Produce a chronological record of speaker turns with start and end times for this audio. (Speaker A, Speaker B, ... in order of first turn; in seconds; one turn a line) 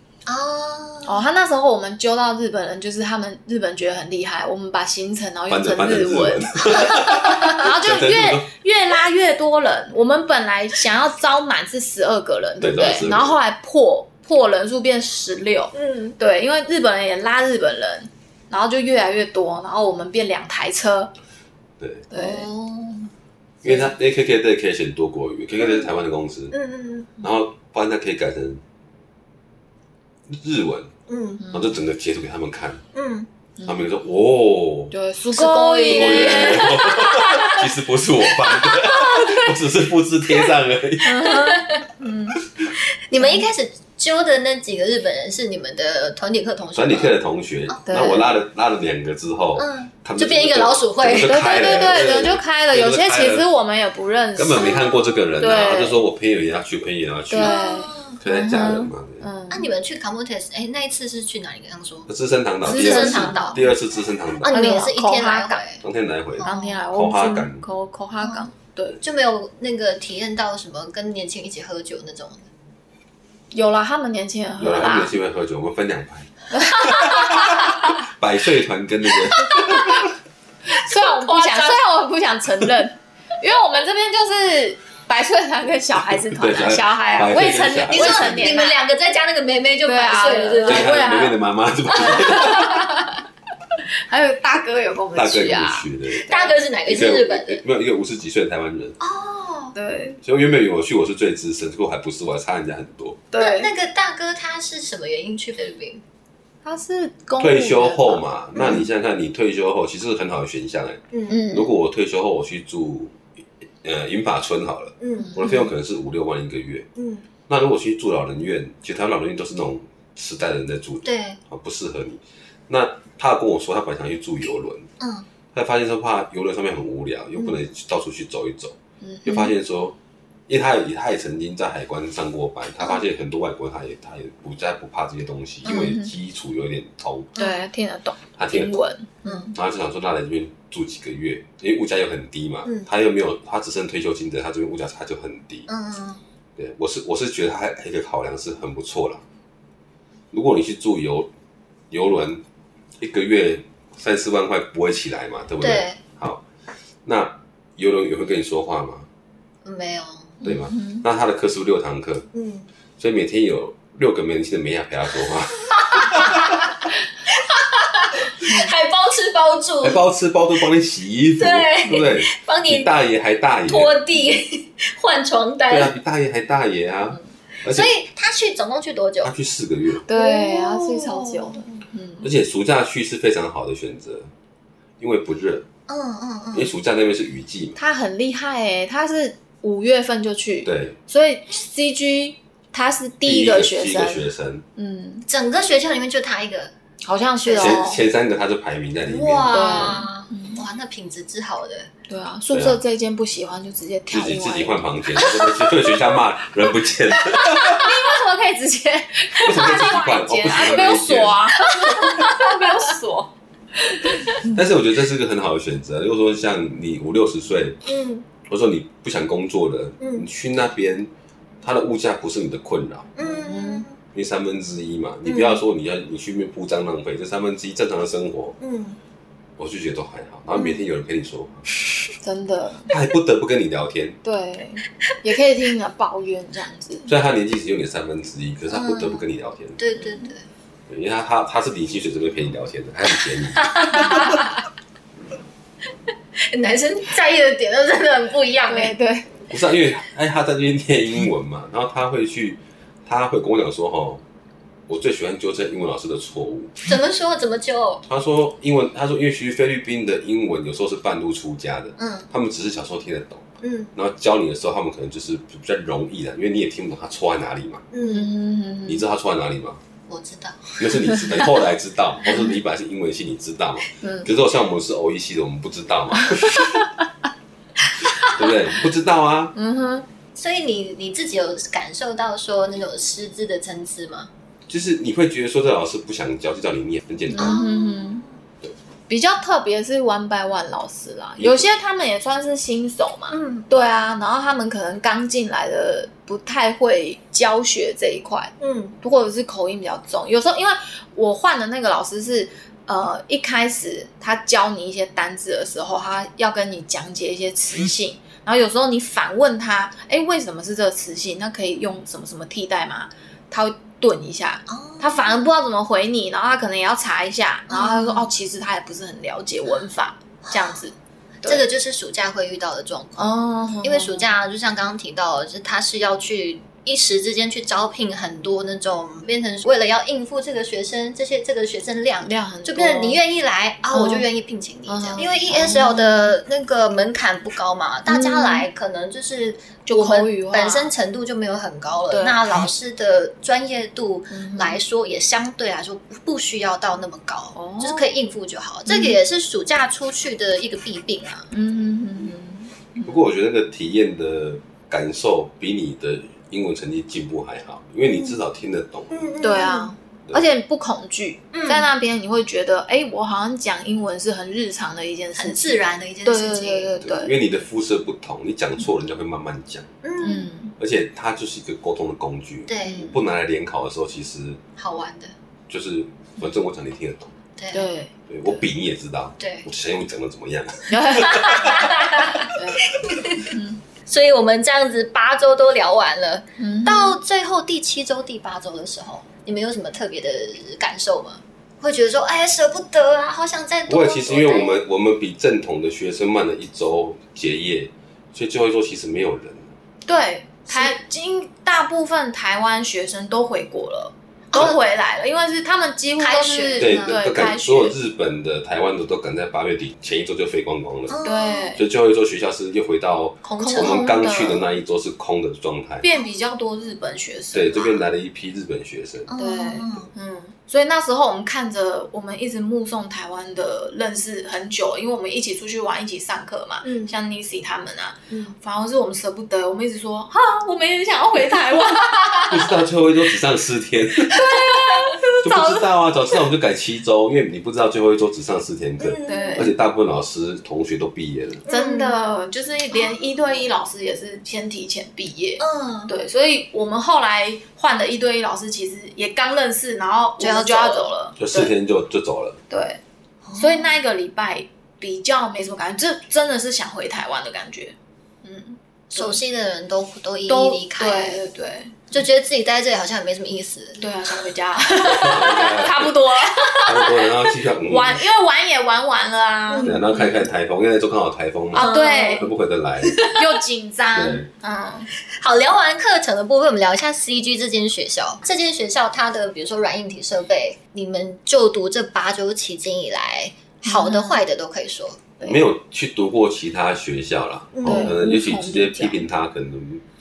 Speaker A: 0.2-1.2
Speaker B: 1.0-21.1
Speaker C: 5.5-8.5
Speaker C: 12.6-13.4
Speaker A: 15.7-16.2
Speaker C: 21.8-22.1
Speaker B: 22.1-22.5
Speaker A: 22.1-23.1
Speaker C: 23.6-26.6
Speaker A: 25.6-25.9
Speaker A: 26.5-27.1
Speaker C: 27.2-28.6
Speaker C: 30.3-30.9
Speaker A: 31.1-31.4
Speaker B: 31.4-31.7
Speaker C: 31.5-32.8
Speaker A: 32.9-33.3
Speaker B: 33.6-33.9
Speaker C: 33.6-34.9
Speaker B: 34.9-37.6
Speaker A: 35.3-37.0
Speaker C: 35.9-41.4
Speaker A: 38.6-39.2
Speaker B: 41.0-42.4
Speaker A: 41.2-41.9
Speaker A: 43.1-47.1
Speaker B: 43.1-43.4
Speaker C: 46.7-53.5
Speaker A: 47.7-48.3
Speaker B: 47.9-48.2
Speaker A: 49.5-51.7
Speaker B: 51.2-56.0
Speaker C: 54.3-59.2
Speaker A: 54.5-55.3
Speaker B: 57.3-59.7
Speaker A: 57.4-58.2
Speaker A: 59.5-62.1
Speaker C: 62.1-64.5
Speaker A: 62.6-63.6
Speaker B: 62.6-63.6
Speaker A: 64.4-65.8
Speaker B: 64.5-65.6
Speaker C: 65.8-67.6
Speaker A: 66.4-66.8
Speaker B: 66.4-69.0
Speaker A: 69.0-72.5
Speaker B: 73.5-75.1
Speaker C: 74.6-80.1
Speaker B: 76.6-77.8
Speaker B: 80.7-88.8
Speaker A: 81.0-81.8
Speaker C: 86.3-88.6
Speaker A: 87.9-90.9
Speaker B: 89.8-91.4
Speaker C: 90.6-92.9
Speaker B: 92.0-93.0
Speaker A: 92.1-92.6
Speaker B: 94.1-95.8
Speaker C: 95.1-99.0
Speaker A: 96.1-97.6
Speaker A: 99.0-99.7
Speaker B: 99.7-100.2
Speaker C: 100.2-103.2
Speaker B: 103.3-103.7
Speaker A: 103.3-106.0
Speaker B: 106.6-108.2
Speaker C: 107.4-113.2
Speaker A: 108.6-108.8
Speaker A: 111.1-111.4
Speaker B: 111.3-111.7
Speaker C: 113.8-116.8
Speaker A: 115.0-115.5
Speaker B: 115.2-115.7
Speaker A: 117.0-117.3
Speaker C: 117.5-124.9
Speaker A: 121.0-121.4
Speaker A: 125.0-125.3
Speaker C: 125.5-129.9
Speaker B: 129.0-129.5
Speaker C: 130.5-137.3
Speaker A: 135.6-136.0
Speaker B: 135.7-136.1
Speaker B: 137.3-139.5
Speaker C: 138.4-138.8
Speaker A: 139.2-139.5
Speaker C: 139.5-145.7
Speaker A: 145.7-146.2
Speaker C: 146.6-149.2
Speaker C: 150.3-151.3
Speaker C: 151.9-152.4
Speaker C: 153.0-156.4
Speaker A: 155.6-156.0
Speaker C: 157.0-159.1
Speaker A: 159.6-160.4
Speaker B: 160.4-161.0
Speaker C: 160.4-162.3
Speaker A: 162.3-162.7
Speaker C: 163.0-166.5
Speaker A: 165.7-166.7
Speaker A: 167.3-170.0
Speaker B: 168.4-168.7
Speaker C: 169.8-174.0
Speaker A: 171.4-172.9
Speaker A: 173.7-175.9
Speaker C: 175.7-177.9
Speaker A: 177.6-179.3
Speaker C: 179.2-180.0
Speaker B: 180.1-182.3
Speaker A: 180.1-181.6
Speaker C: 182.2-184.3
Speaker C: 185.0-185.7
Speaker A: 185.9-186.8
Speaker C: 186.5-187.8
Speaker B: 187.8-195.2
Speaker C: 190.6-190.9
Speaker C: 193.2-194.6
Speaker A: 195.3-196.7
Speaker B: 197.0-198.0
Speaker A: 197.4-197.8
Speaker C: 197.6-200.1
Speaker A: 199.0-201.9
Speaker B: 199.5-200.6
Speaker B: 202.1-204.8
Speaker C: 202.5-202.8
Speaker C: 204.1-207.9
Speaker B: 207.6-214.4
Speaker C: 209.4-211.5
Speaker C: 214.4-217.8
Speaker A: 217.8-218.2
Speaker C: 218.4-221.1
Speaker A: 220.0-220.2
Speaker C: 221.6-223.1
Speaker A: 223.2-224.0
Speaker B: 223.2-223.8
Speaker C: 224.1-228.6
Speaker A: 225.2-225.6
Speaker A: 228.6-229.0
Speaker C: 229.6-231.7
Speaker A: 230.5-230.9
Speaker B: 232.2-232.9
Speaker C: 232.9-234.2
Speaker B: 234.2-237.1
Speaker C: 237.1-239.8
Speaker A: 238.7-239.2
Speaker A: 239.8-240.5
Speaker C: 240.9-244.2
Speaker A: 243.5-244.4
Speaker B: 243.9-244.4
Speaker A: 246.5-248.9
Speaker B: 248.7-249.3
Speaker C: 249.5-254.2
Speaker C: 254.9-256.7
Speaker A: 256.8-258.0
Speaker C: 258.1-267.8
Speaker A: 262.0-262.3
Speaker A: 263.6-263.9
Speaker A: 267.9-268.3
Speaker B: 268.1-269.1
Speaker C: 268.9-269.8
Speaker A: 270.1-271.4
Speaker C: 270.8-276.7
Speaker B: 274.0-274.3
Speaker B: 276.4-276.9
Speaker C: 278.3-279.5
Speaker B: 279.6-280.1
Speaker A: 280.4-284.3
Speaker C: 284.7-287.6
Speaker B: 287.4-288.2
Speaker A: 287.4-288.3
Speaker B: 289.1-321.6
Speaker C: 291.4-291.6
Speaker A: 293.3-293.7
Speaker A: 298.6-299.0
Speaker A: 314.7-315.4
Speaker A: 317.7-318.3
Speaker A: 320.4-320.9
Speaker A: 321.4-351.5
Speaker B: 323.2-324.3
Speaker B: 332.2-333.2
Speaker B: 333.9-334.2
Speaker B: 334.9-336.3
Speaker B: 338.1-338.6
Speaker B: 339.9-340.9
Speaker B: 342.1-342.7
Speaker B: 344.3-344.8
Speaker B: 347.5-348.1
Speaker B: 348.9-349.1
Speaker B: 351.5-353.2
Speaker C: 353.1-359.3
Speaker A: 359.1-359.9
Speaker B: 359.4-367.3
Speaker A: 361.5-361.9
Speaker A: 365.4-367.0
Speaker C: 367.0-369.9
Speaker A: 370.0-370.5
Speaker B: 370.2-370.7
Speaker C: 370.8-374.6
Speaker A: 372.7-373.2
Speaker B: 372.8-373.1
Speaker A: 374.8-375.3
Speaker C: 375.7-377.3
Speaker A: 377.6-377.9
Speaker B: 377.7-378.1
Speaker C: 378.3-382.4
Speaker A: 379.4-379.7
Speaker B: 380.9-383.8
Speaker A: 381.4-383.6
Speaker A: 384.1-394.7
Speaker B: 386.6-387.2
Speaker C: 393.9-399.7
Speaker B: 400.1-407.9
Speaker A: 404.5-404.8
Speaker A: 406.2-407.2
Speaker C: 406.8-416.1
Speaker A: 411.1-411.7
Speaker B: 411.2-411.8
Speaker A: 413.4-414.0
Speaker B: 413.6-414.6
Speaker B: 416.0-417.9
Speaker C: 417.5-419.3
Speaker A: 419.3-420.1
Speaker B: 419.4-432.6
Speaker A: 426.8-427.1
Speaker A: 428.3-428.6
Speaker C: 432.5-434.4
Speaker B: 434.3-435.8
Speaker C: 435.4-441.6
Speaker A: 439.0-439.7
Speaker B: 439.3-439.7
Speaker A: 441.6-442.2
Speaker B: 441.7-451.7
Speaker A: 445.6-446.1
Speaker A: 450.4-451.1
Speaker C: 451.4-452.6
Speaker B: 452.7-453.0
Speaker A: 453.4-453.9
Speaker B: 453.5-459.4
Speaker A: 459.1-461.4
Speaker B: 460.5-462.1
Speaker A: 462.1-464.1
Speaker B: 464.0-467.2
Speaker C: 465.0-466.1
Speaker C: 466.8-468.2
Speaker B: 467.8-470.2
Speaker A: 469.7-470.3
Speaker C: 469.8-473.2
Speaker B: 471.7-472.4
Speaker A: 471.7-472.5
Speaker A: 473.0-473.4
Speaker B: 473.3-475.1
Speaker C: 474.1-474.5
Speaker A: 475.3-485.4
Speaker B: 483.9-484.4
Speaker C: 485.4-490.0
Speaker A: 487.7-488.1
Speaker B: 487.8-489.2